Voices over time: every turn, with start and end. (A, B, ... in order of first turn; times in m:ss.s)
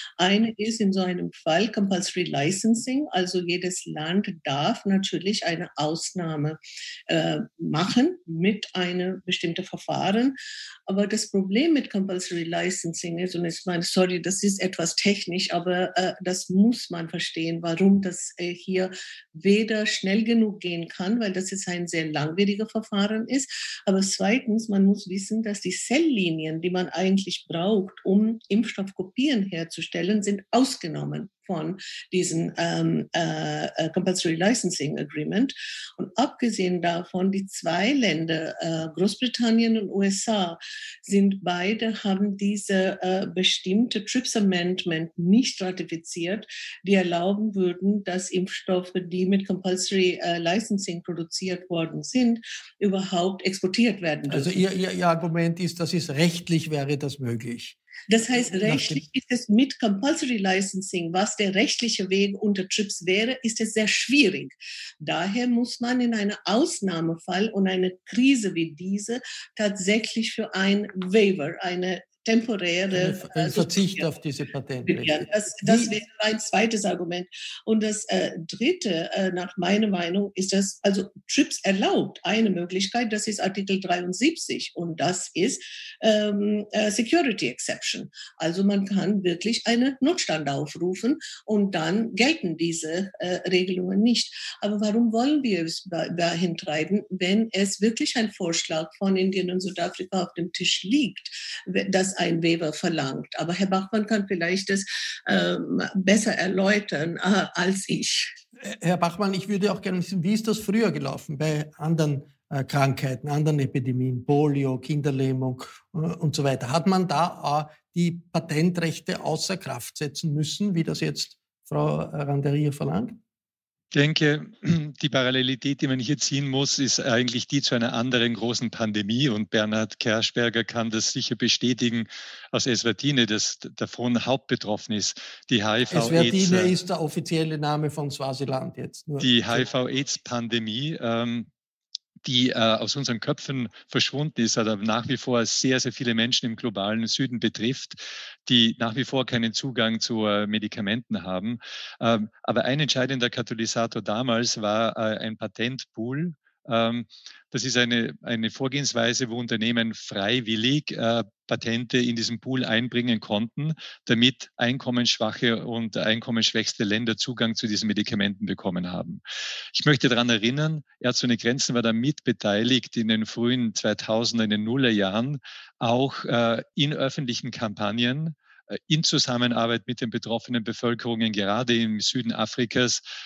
0:00.2-0:06.6 A
0:07.1-0:10.4 A
0:10.9-0:54.6 A
0:54.3-0:57.8 B
0:58.1-1:14.1 A
0:58.6-0:59.0 B
1:12.9-1:15.9 B
1:14.8-1:48.3 A
1:48.6-2:03.2 B
2:03.9-2:16.7 C
2:15.9-2:19.6 B
2:19.2-2:21.5 C
2:22.2-2:49.2 C
2:49.7-3:03.0 C